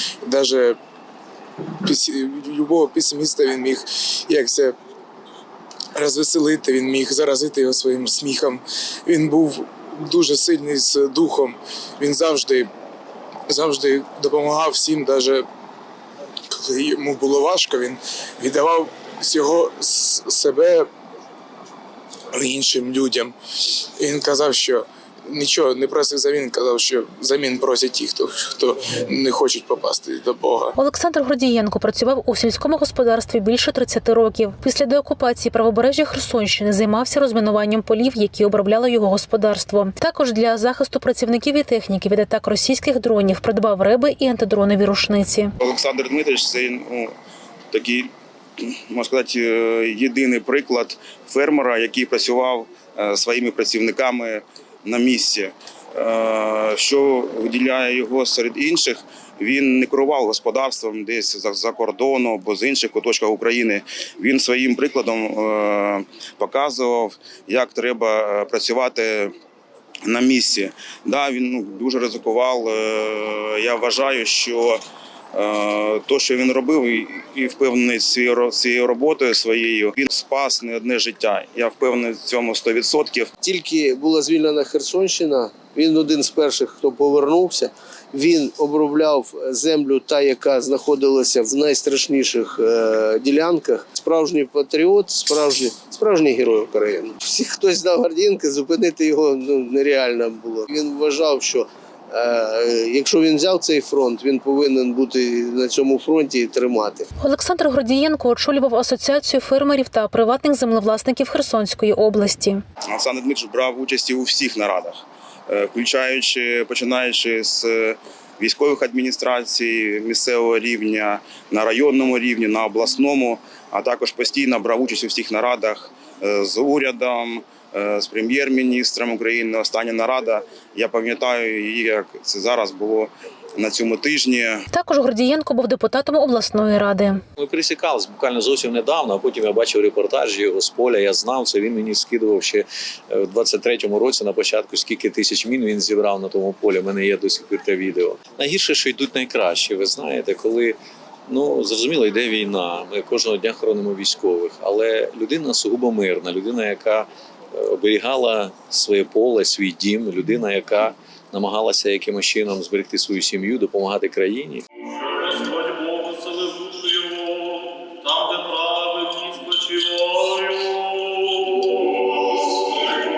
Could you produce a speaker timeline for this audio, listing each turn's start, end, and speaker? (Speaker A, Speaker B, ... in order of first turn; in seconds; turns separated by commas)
Speaker A: 0.2-0.8, Speaker A: 1.8-4.8, Speaker A: 6.0-12.7, Speaker A: 13.5-15.4, Speaker A: 16.5-20.9, Speaker A: 22.3-30.8, Speaker B: 30.8-45.5, Speaker C: 45.6-47.1, Speaker C: 47.7-69.3, Speaker C: 70.1-74.8, Speaker C: 75.3-83.3, Speaker D: 83.4-107.1, Speaker B: 107.2-112.6, Speaker C: 112.9-134.7, Speaker B: 134.7-137.2, Speaker E: 137.4-171.6